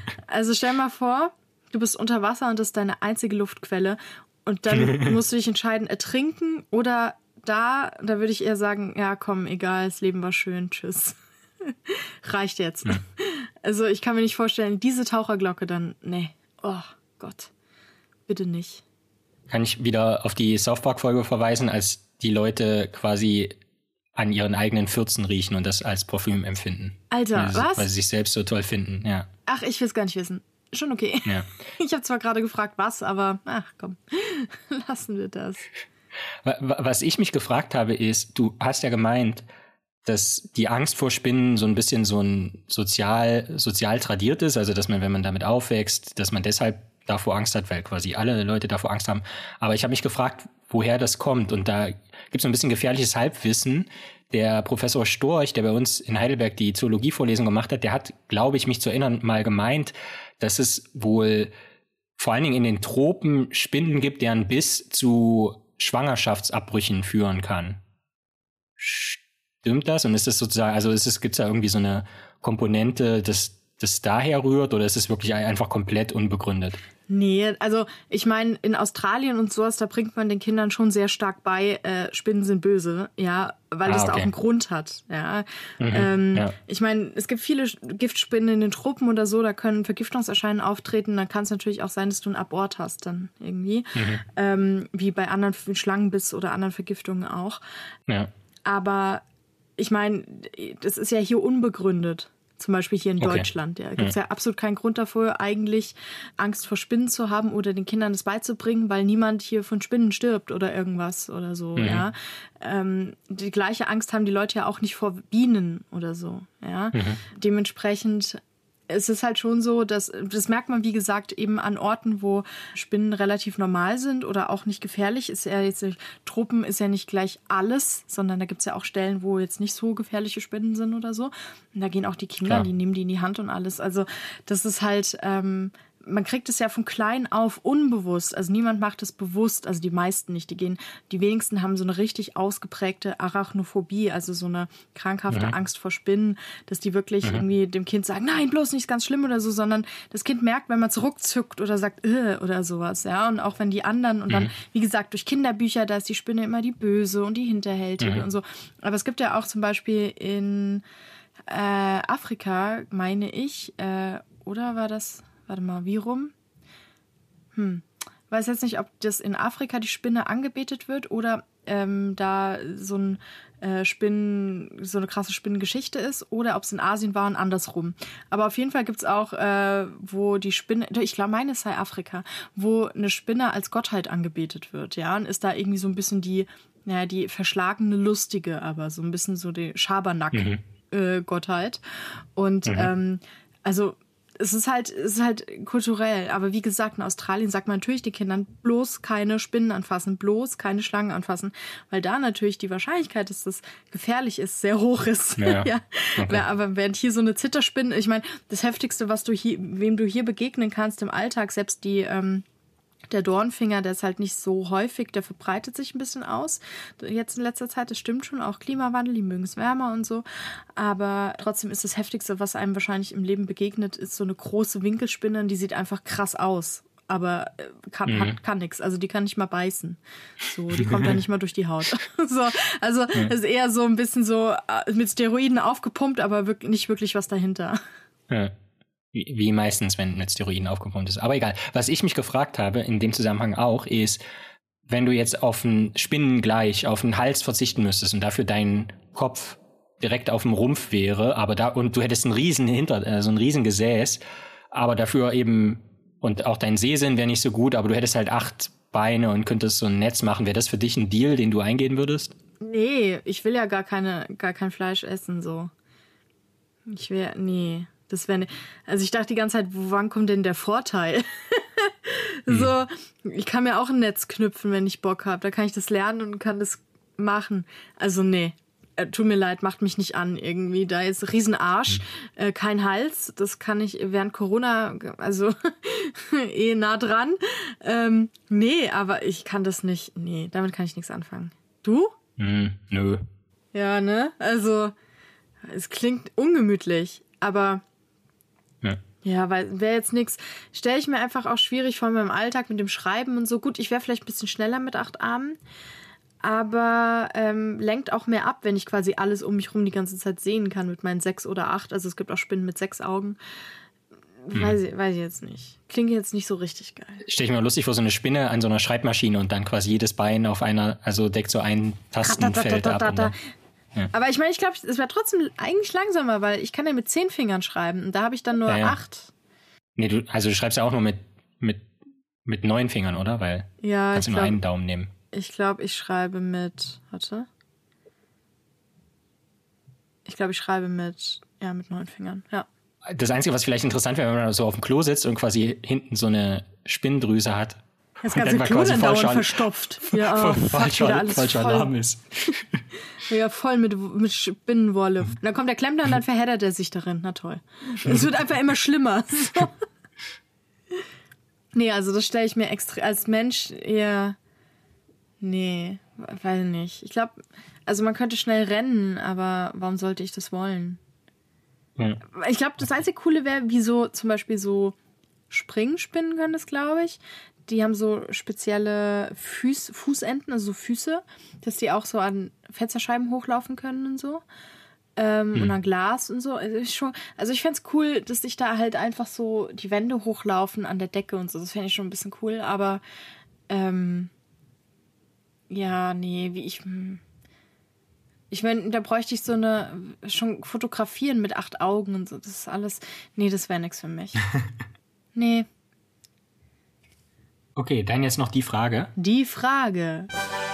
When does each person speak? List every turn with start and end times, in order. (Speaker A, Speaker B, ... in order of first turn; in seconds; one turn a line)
Speaker A: 0.3-17.5
Speaker B: 4.8-5.1
Speaker A: 18.3-18.8
Speaker B: 19.5-23.6
Speaker B: 24.2-29.3
Speaker A: 27.1-27.9
Speaker A: 29.5-35.7
Speaker B: 36.4-39.5
Speaker B: 40.0-61.5
Speaker B: 62.2-67.8
Speaker B: 68.8-76.8
Speaker A: 77.1-97.6
Speaker B: 83.9-84.3
Speaker B: 85.8-86.5
Speaker B: 94.0-94.2
Speaker A: 98.7-99.2
Speaker A: 99.8-160.8
Speaker B: 103.2-103.5
Speaker B: 111.8-112.0
Speaker B: 116.9-117.2
Speaker A: 161.5-166.3
Speaker A: 167.6-191.8
Speaker B: 190.3-190.6
Speaker A: 192.4-212.4
Speaker B: 205.4-206.4
Speaker A: 213.1-237.8
Speaker B: 228.1-228.4
Speaker B: 230.8-231.1
Speaker B: 238.3-238.6
Speaker B: 239.1-244.2
Speaker B: 244.9-262.3
Speaker A: 262.6-265.7
Speaker A: 266.9-292.1
Speaker B: 292.4-293.2
Speaker A: 293.7-294.9
Speaker A: 295.6-297.8
Speaker A: 299.2-305.6
Speaker A: 306.4-313.4
Speaker A: 314.5-317.2
Speaker B: 317.2-323.3
Speaker A: 322.2-323.4
Speaker A: 324.1-329.3
Speaker B: 328.7-329.0
Speaker B: 330.0-331.9
Speaker B: 332.4-335.1
Speaker A: 333.8-334.6
Speaker A: 335.3-337.5
Speaker A: 340.3-342.7
Speaker B: 343.1-352.8
Speaker A: 348.2-351.9
Speaker A: 353.2-359.8
Speaker A: 361.8-364.4
Speaker A: 365.4-371.0
Speaker A: 372.2-374.9
Speaker A: 375.5-384.4
Speaker A: 385.2-393.0
Speaker A: 393.7-394.3
Speaker A: 395.7-397.2
Speaker A: 398.5-404.4
Speaker A: 405.4-405.7
Speaker B: 407.8-409.1
Speaker A: 409.2-410.3